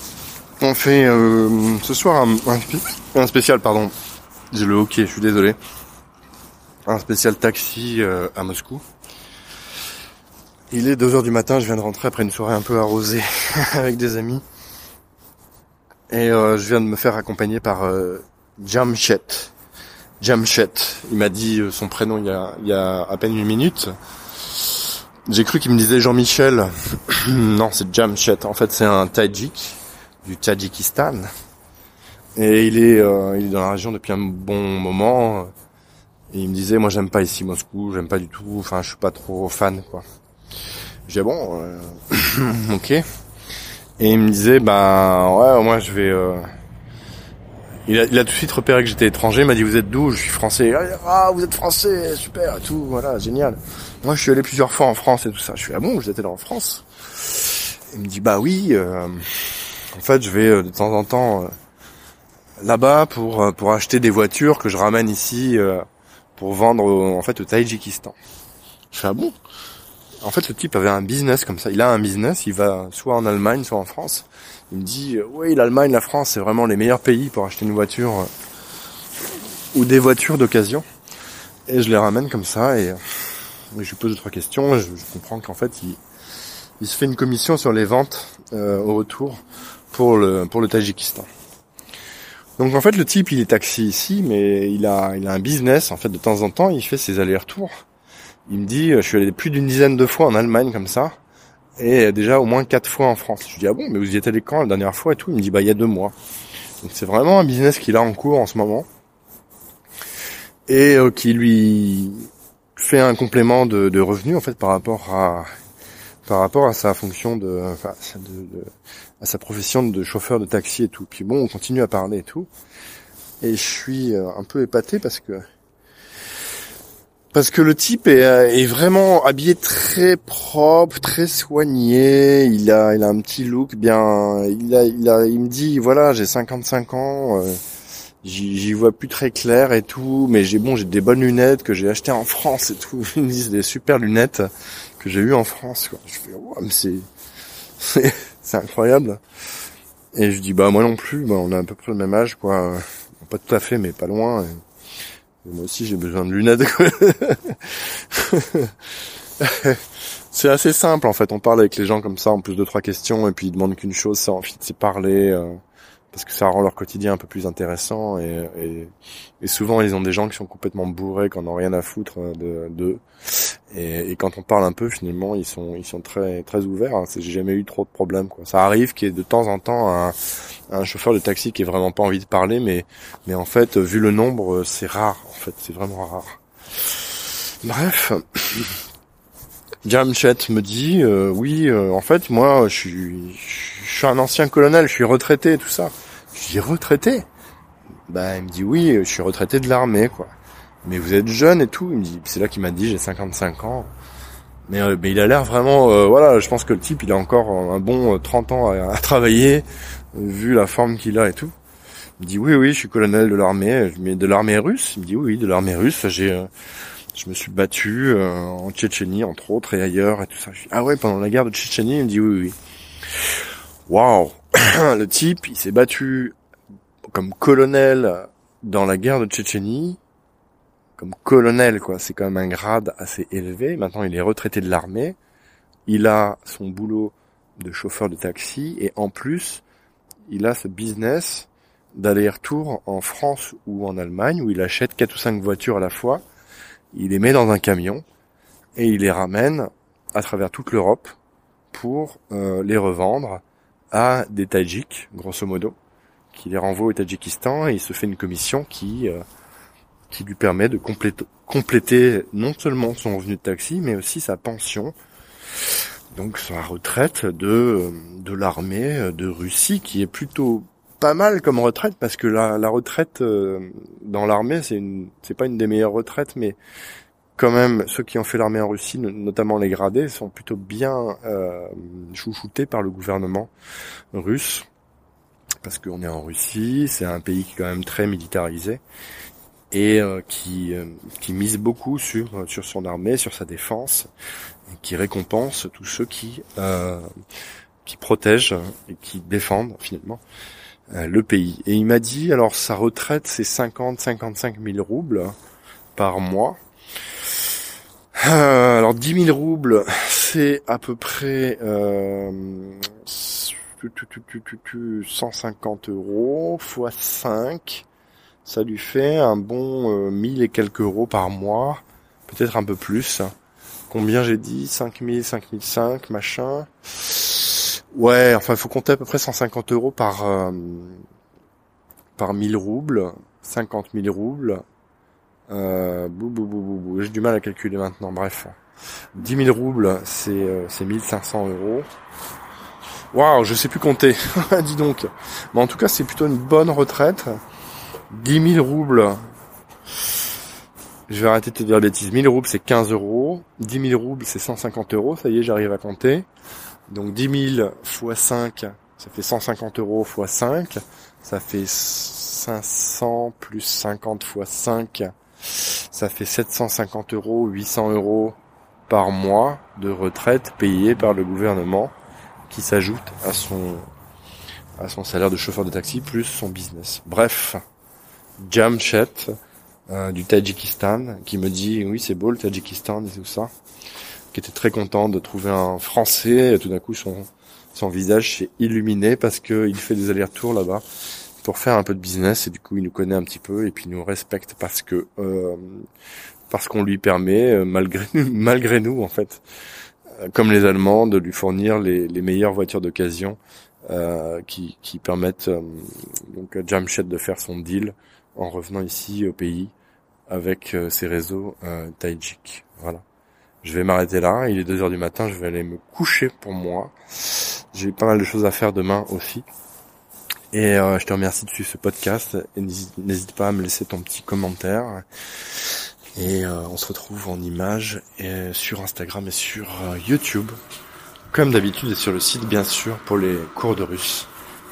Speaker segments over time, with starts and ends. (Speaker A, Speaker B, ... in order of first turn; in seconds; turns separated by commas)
Speaker A: 0.6-3.9, Speaker A: 4.5-5.6, Speaker A: 6.9-8.8, Speaker A: 10.7-14.4, Speaker A: 16.1-19.5, Speaker A: 20.2-31.3, Speaker A: 32.4-35.5, Speaker A: 36.3-40.0, Speaker A: 41.1-43.0, Speaker A: 44.0-46.5, Speaker A: 47.9-61.5, Speaker A: 62.6-65.8, Speaker A: 66.4-68.2, Speaker A: 68.9-69.3, Speaker A: 70.2-78.3, Speaker A: 79.7-80.8, Speaker A: 81.7-83.0, Speaker A: 83.7-86.0, Speaker A: 86.8-89.4, Speaker A: 89.9-91.3, Speaker A: 92.6-97.7, Speaker A: 98.5-101.2, Speaker A: 101.8-106.1, Speaker A: 106.8-108.9, Speaker A: 110.7-115.5, Speaker A: 116.3-118.7, Speaker A: 119.2-122.5, Speaker A: 123.4-125.4, Speaker A: 127.3-137.6, Speaker A: 138.2-147.1, Speaker A: 147.8-149.2, Speaker A: 150.1-154.6, Speaker A: 155.4-158.8, Speaker A: 159.4-165.6, Speaker A: 166.1-180.2, Speaker A: 180.7-186.4, Speaker A: 186.9-188.8, Speaker A: 189.8-197.3, Speaker A: 198.1-200.3, Speaker A: 200.8-203.9, Speaker A: 204.7-211.5, Speaker A: 212.2-216.5, Speaker A: 217.2-222.6, Speaker A: 223.9-226.3, Speaker A: 227.1-230.0, Speaker A: 231.0-235.2, Speaker A: 235.9-239.6, Speaker A: 240.3-246.2, Speaker A: 246.9-248.0, Speaker A: 248.8-251.2, Speaker A: 251.7-255.8, Speaker A: 256.3-259.2, Speaker A: 260.1-264.9, Speaker A: 265.6-276.6, Speaker A: 277.4-283.5, Speaker A: 284.1-284.7, Speaker A: 285.6-288.8, Speaker A: 289.7-294.1, Speaker A: 294.7-297.1, Speaker A: 297.8-300.2, Speaker A: 300.9-305.4, Speaker A: 306.0-306.6, Speaker A: 308.2-317.9, Speaker A: 318.4-323.3, Speaker A: 323.9-331.0, Speaker A: 332.2-334.6, Speaker A: 335.5-338.6, Speaker A: 339.1-341.9, Speaker A: 343.1-347.3, Speaker A: 348.1-349.2, Speaker A: 351.1-356.3, Speaker A: 356.9-368.4, Speaker A: 368.9-371.9, Speaker A: 372.5-373.9, Speaker A: 374.8-377.6, Speaker A: 378.4-379.3, Speaker A: 379.9-383.5, Speaker A: 384.3-390.8, Speaker A: 391.4-395.9, Speaker A: 396.5-399.4, Speaker A: 400.3-409.7, Speaker A: 410.3-413.0, Speaker A: 413.6-419.5, Speaker A: 420.5-430.6, Speaker A: 431.3-434.3